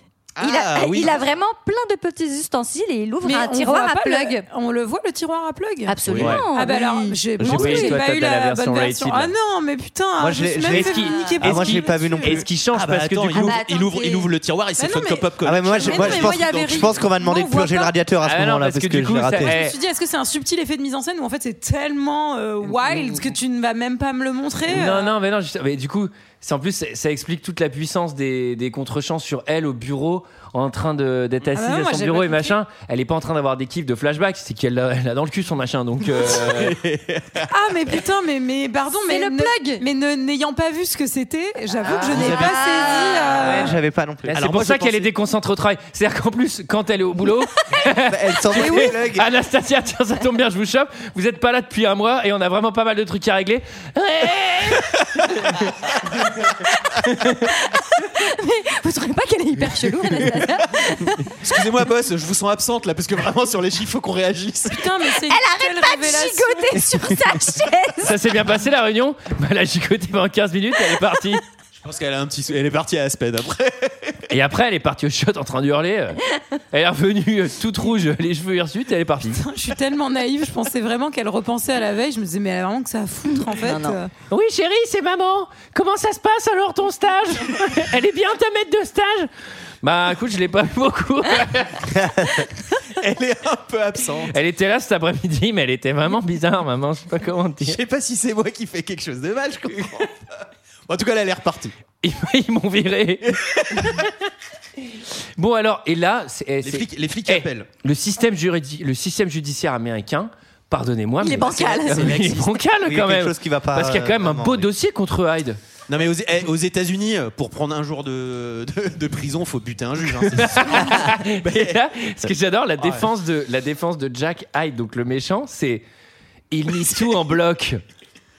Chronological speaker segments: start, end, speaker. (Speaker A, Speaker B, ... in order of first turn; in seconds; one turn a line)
Speaker A: 0.4-1.2
Speaker B: 0.4-4.4
Speaker C: 3.2-6.0
Speaker B: 5.9-8.0
Speaker A: 6.1-6.4
Speaker D: 6.1-6.4
Speaker C: 6.5-12.4
Speaker D: 7.4-9.3
Speaker E: 10.2-12.5
Speaker D: 10.7-13.6
Speaker A: 12.7-17.0
Speaker B: 13.3-14.3
Speaker C: 14.8-15.3
Speaker E: 15.4-19.6
Speaker C: 15.8-17.9
Speaker D: 18.2-19.7
Speaker C: 19.4-25.1
Speaker D: 24.7-36.8
Speaker C: 31.6-32.5
Speaker A: 36.1-37.5
Speaker C: 37.5-43.8
Speaker B: 39.0-39.8
Speaker B: 41.8-43.6
Speaker E: 42.0-42.7
Speaker E: 43.3-44.3
Speaker D: 44.3-55.7
Speaker A: 44.3-45.1
Speaker E: 48.1-49.3
Speaker C: 48.6-48.9
Speaker D: 57.0-57.4
Speaker B: 57.7-61.3
Speaker A: 61.4-64.9
Speaker C: 64.7-66.9
Speaker B: 65.3-68.2
Speaker D: 68.0-71.4
Speaker A: 71.8-74.2
Speaker D: 74.3-76.2
Speaker D: 76.7-79.4
Speaker C: 79.3-84.1
Speaker B: 83.4-84.0
Speaker D: 84.3-89.3
Speaker D: 89.8-92.0
Speaker A: 93.0-94.3
Speaker D: 94.3-97.8
Speaker A: 97.6-100.2
Speaker A: 100.9-101.7
Speaker D: 102.0-104.1
Speaker A: 103.4-104.0
Speaker D: 105.4-115.6
Speaker A: 106.6-107.7
Speaker B: 111.2-112.3
Speaker A: 111.4-112.5
Speaker E: 112.8-114.7
Speaker A: 115.9-121.8
Speaker D: 120.3-125.8
Speaker A: 122.8-123.0
Speaker D: 126.5-127.8